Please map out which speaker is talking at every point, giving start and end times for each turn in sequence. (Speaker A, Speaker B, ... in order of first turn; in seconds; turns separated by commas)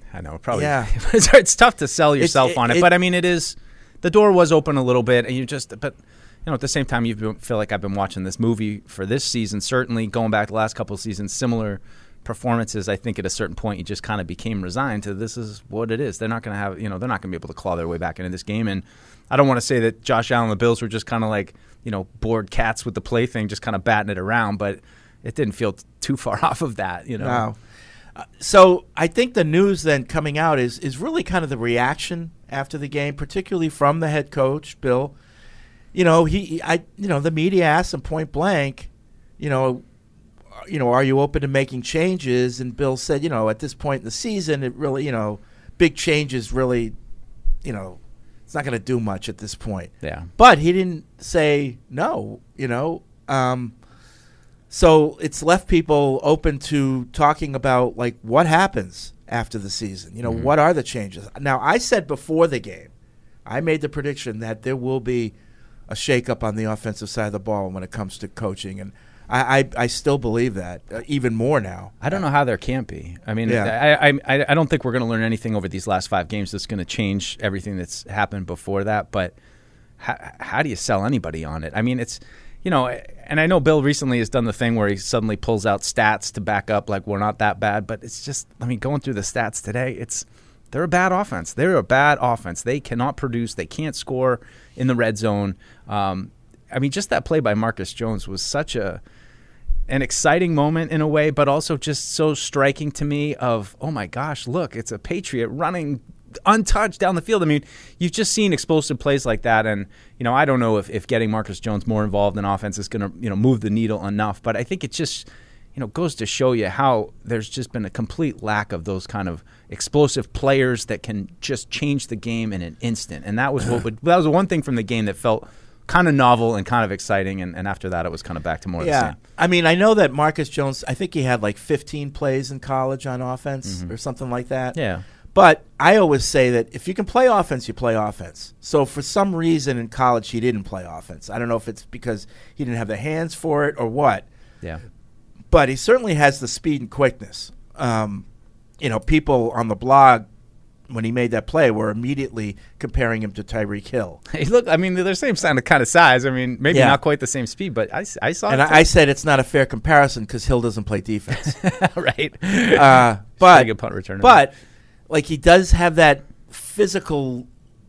Speaker A: 0.1-27.4, Speaker B: 0.5-0.9, Speaker B: 2.2-2.9, Speaker B: 27.2-27.6, Speaker B: 28.1-35.1, Speaker B: 35.9-39.8, Speaker B: 40.6-46.9, Speaker B: 47.6-53.7, Speaker A: 50.0-50.3, Speaker B: 54.7-62.9, Speaker A: 60.2-60.5, Speaker B: 63.5-65.3, Speaker B: 65.9-72.2, Speaker A: 72.0-79.3, Speaker B: 73.4-73.7, Speaker A: 80.0-99.0, Speaker A: 99.9-129.1, Speaker B: 128.8-134.8, Speaker A: 134.7-135.0, Speaker B: 135.3-144.2, Speaker B: 145.5-148.2, Speaker B: 148.8-150.3, Speaker B: 150.9-154.2, Speaker A: 154.3-158.9, Speaker B: 156.7-157.0, Speaker B: 158.5-161.6, Speaker A: 161.4-164.4, Speaker B: 162.7-164.5, Speaker B: 165.1-167.5